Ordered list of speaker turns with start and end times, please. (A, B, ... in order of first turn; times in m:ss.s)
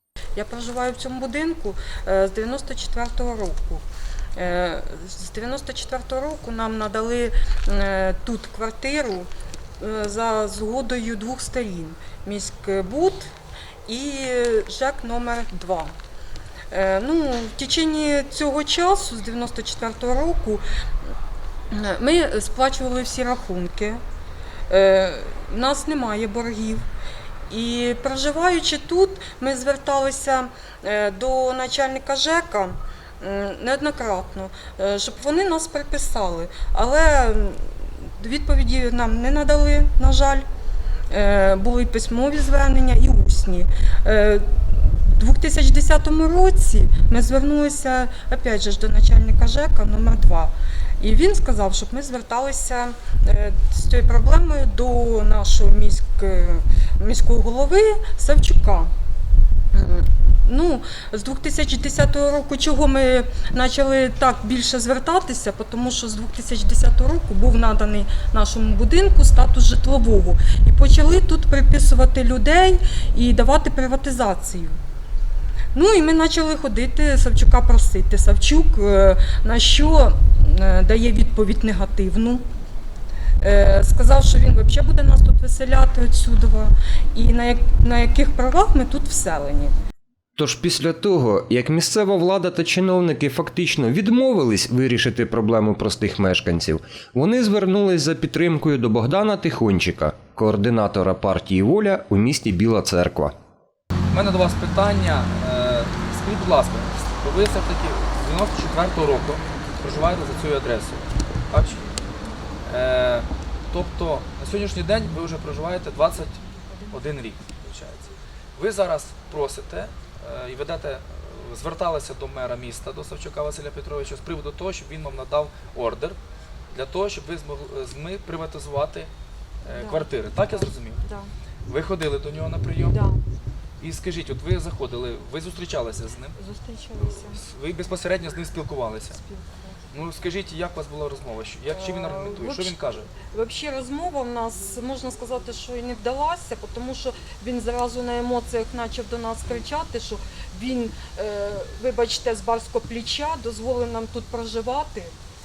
0:00.4-0:03.8 A
0:04.4-0:09.3 A
0:09.8-0:13.3 A
0:13.8-0:15.9 A
0:16.7-0:20.6 A
0:21.7-0:24.0 A
0:24.7-0:26.8 A
0:27.5-0:40.4 A
0:41.1-0:58.9 A
0:59.7-1:14.8 A
1:15.7-1:22.4 A
1:23.4-1:29.7 A
1:30.4-1:43.3 B
1:44.1-1:51.8 C
1:52.6-2:06.2 C
2:06.7-2:09.1 C
2:09.6-2:11.0 C
2:09.7-2:11.3 A
2:11.7-2:13.0 C
2:12.8-2:13.2 A
2:13.8-2:16.3 C
2:16.4-2:17.4 A
2:17.4-2:19.2 C
2:19.1-2:19.8 A
2:19.9-2:23.1 C
2:21.7-2:35.1 A